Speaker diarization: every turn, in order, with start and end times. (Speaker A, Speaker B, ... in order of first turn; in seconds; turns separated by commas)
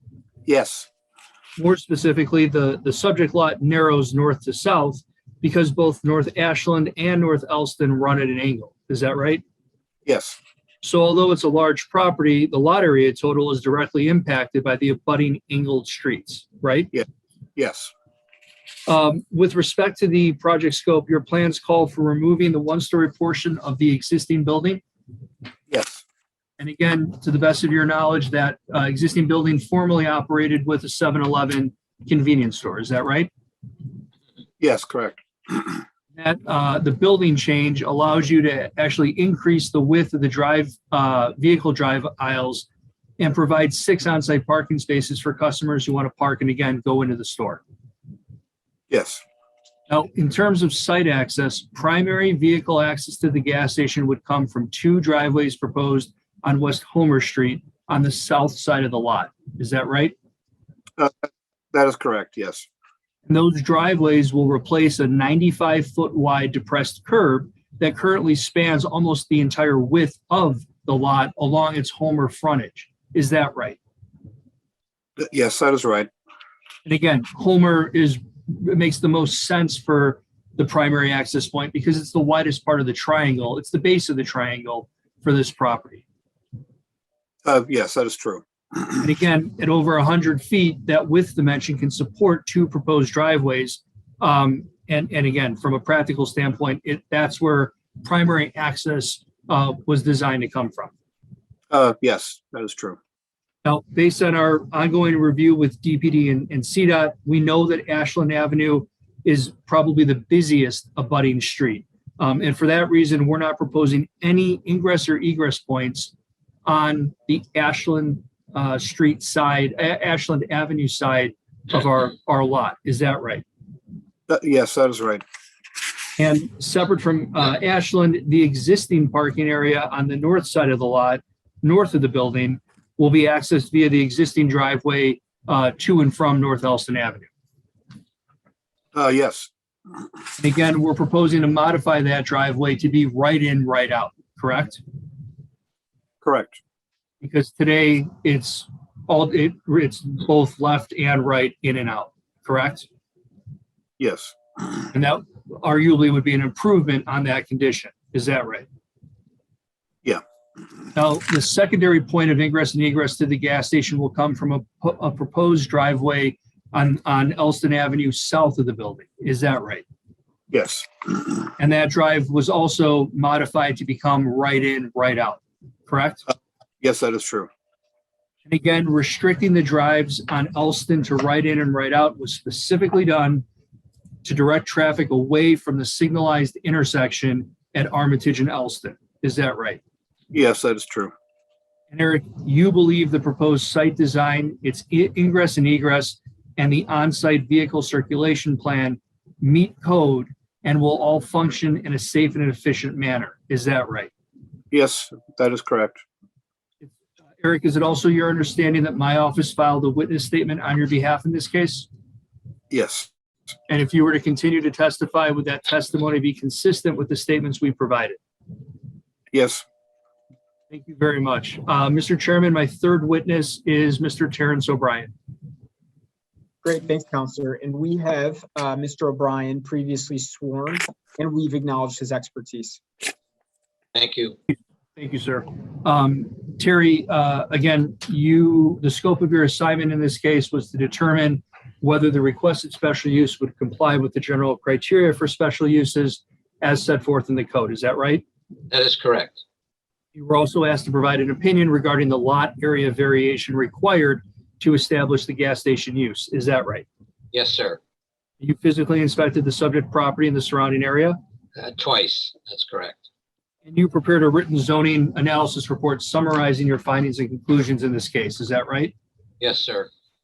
Speaker A: 0.5-0.9, Speaker B: 1.6-9.4, Speaker A: 10.1-10.4, Speaker B: 10.8-16.9, Speaker A: 17.6-17.9, Speaker B: 18.9-24.8, Speaker A: 25.7-26.0, Speaker B: 26.6-33.3, Speaker A: 34.6-35.8, Speaker B: 36.2-42.7, Speaker B: 43.2-47.6, Speaker A: 48.9-49.2, Speaker B: 49.9-60.1, Speaker A: 61.0-62.7, Speaker B: 63.3-73.8, Speaker A: 75.2-76.1, Speaker B: 76.8-86.0, Speaker A: 87.5-88.4, Speaker B: 89.0-100.9, Speaker A: 101.7-103.0, Speaker B: 103.6-116.1, Speaker B: 116.7-123.4, Speaker A: 124.3-125.2, Speaker B: 126.2-137.3, Speaker A: 138.9-139.5, Speaker B: 140.4-144.8, Speaker A: 146.2-146.6, Speaker B: 147.2-152.9, Speaker A: 154.0-154.3, Speaker B: 154.9-158.7, Speaker B: 160.9-169.8, Speaker A: 170.5-170.9, Speaker B: 171.6-176.3, Speaker A: 176.8-177.5, Speaker B: 178.5-183.4, Speaker B: 184.2-189.8, Speaker A: 190.3-191.1, Speaker B: 191.9-204.1, Speaker A: 204.7-206.0, Speaker B: 206.8-211.9, Speaker A: 212.7-213.1, Speaker B: 213.7-218.2, Speaker A: 219.3-219.6, Speaker B: 220.7-225.1, Speaker C: 226.6-232.8, Speaker D: 233.9-234.4, Speaker B: 235.0-248.2, Speaker D: 248.7-249.4, Speaker B: 250.2-256.9, Speaker D: 257.3-257.8, Speaker B: 258.4-261.2, Speaker D: 261.6-263.1, Speaker B: 263.6-268.9, Speaker D: 269.4-269.9